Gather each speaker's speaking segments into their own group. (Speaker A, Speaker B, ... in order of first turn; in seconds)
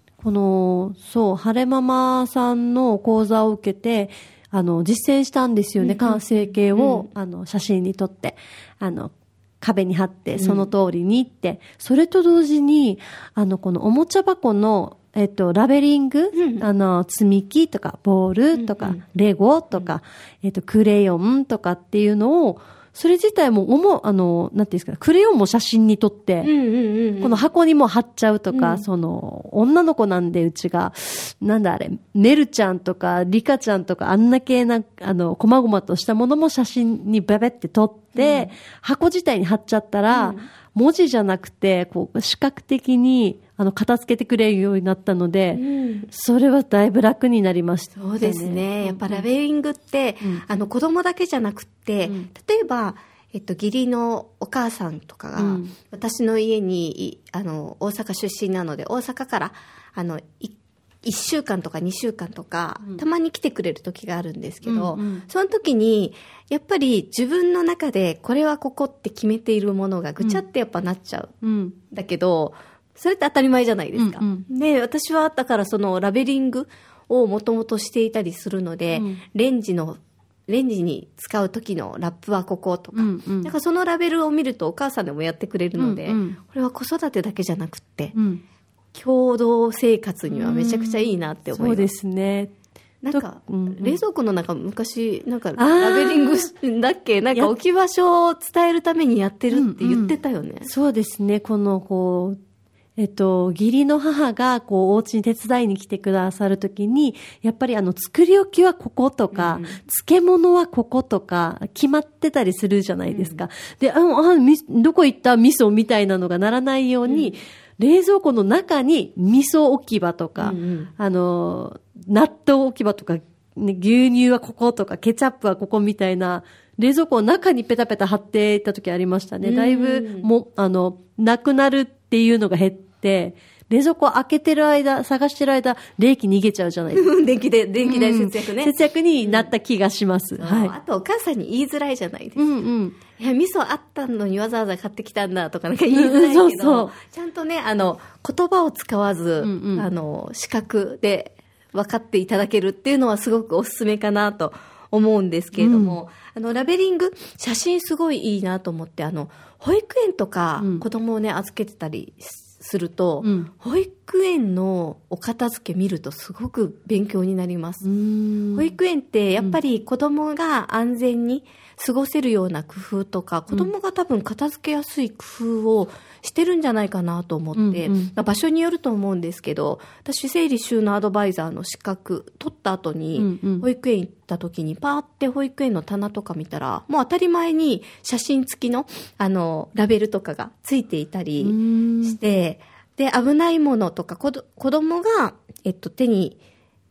Speaker A: 0.2-26.5, 27.2-49.2, 55.4-55.7, 64.7-65.2, 71.4-71.8, 74.0-74.5, 78.9-79.2, 82.9-83.5, 85.8-86.4, 88.2-88.4, 90.3-92.5, 93.1-94.0, 95.6-96.5, 99.5-100.1, 100.7-102.4, 103.0-137.1, 137.8-140.7, 142.4-143.0, 145.9-146.9, 149.4-149.9, 155.6-156.0, 160.6-160.8, 163.2-163.5, 167.8-168.7, 177.6-178.1, 183.2-183.7, 191.4-192.2
Speaker B: 5.8-7.1, 10.3-10.7, 16.3-16.7, 18.6-19.0, 26.4-27.4, 28.5-28.9, 38.2-38.5, 40.1-40.5, 45.5-46.1, 48.0-71.3, 71.9-88.2, 88.9-91.9, 93.0-100.7, 109.3-109.8, 113.1-113.4, 117.1-117.3, 120.4-120.9, 129.4-130.3, 136.9-139.5, 140.4-167.8, 168.5-196.4